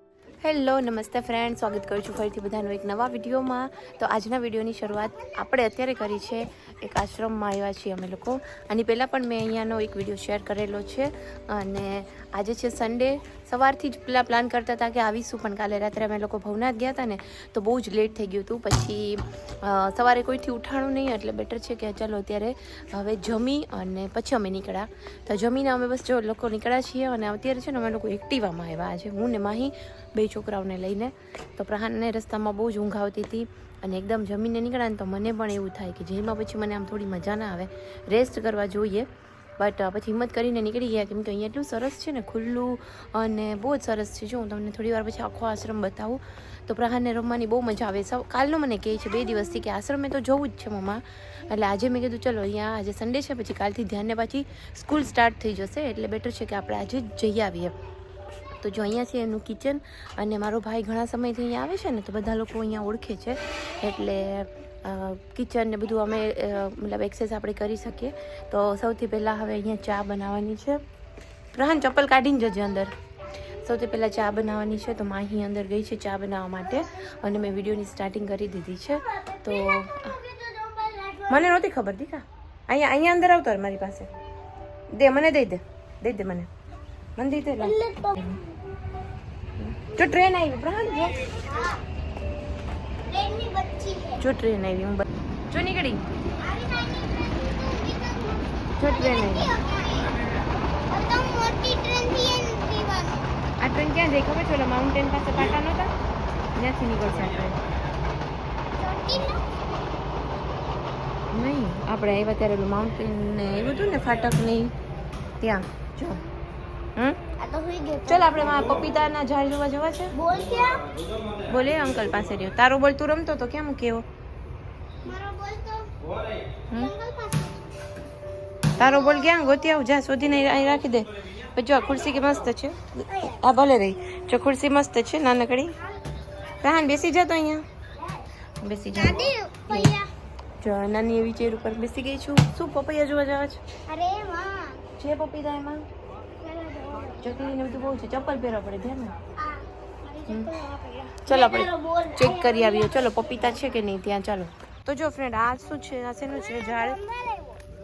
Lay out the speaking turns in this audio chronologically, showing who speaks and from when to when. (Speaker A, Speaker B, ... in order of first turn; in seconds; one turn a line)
Speaker A: 0.4-39.1
Speaker A: 39.6-57.7
Speaker A: 58.6-70.8
Speaker A: 71.5-72.9
Speaker A: 73.6-80.1
Speaker B: 79.2-81.5
Speaker A: 81.3-84.1
Speaker A: 84.9-86.5
Speaker A: 87.2-88.4
Speaker B: 87.6-88.5
Speaker A: 89.6-91.2
Speaker B: 91.4-91.8
Speaker B: 93.0-94.2
Speaker A: 94.2-96.0
Speaker B: 96.4-100.1
Speaker A: 98.8-99.5
Speaker B: 100.9-103.3
Speaker A: 103.6-105.9
Speaker A: 106.5-107.6
Speaker B: 108.8-109.5
Speaker A: 111.3-114.7
Speaker A: 115.4-116.2
Speaker B: 117.4-118.7
Speaker A: 118.1-120.1
Speaker B: 120.1-120.9
Speaker A: 121.5-124.0
Speaker B: 125.0-125.9
Speaker B: 126.7-127.8
Speaker A: 128.8-135.8
Speaker A: 136.6-137.6
Speaker A: 138.6-139.9
Speaker B: 138.9-140.1
Speaker A: 140.6-143.6
Speaker B: 143.9-144.8
Speaker A: 145.0-145.8
Speaker B: 146.4-147.3
Speaker A: 147.2-149.1
Speaker B: 149.4-153.2
Speaker A: 150.3-150.5
Speaker A: 151.2-157.0
Speaker B: 156.3-157.6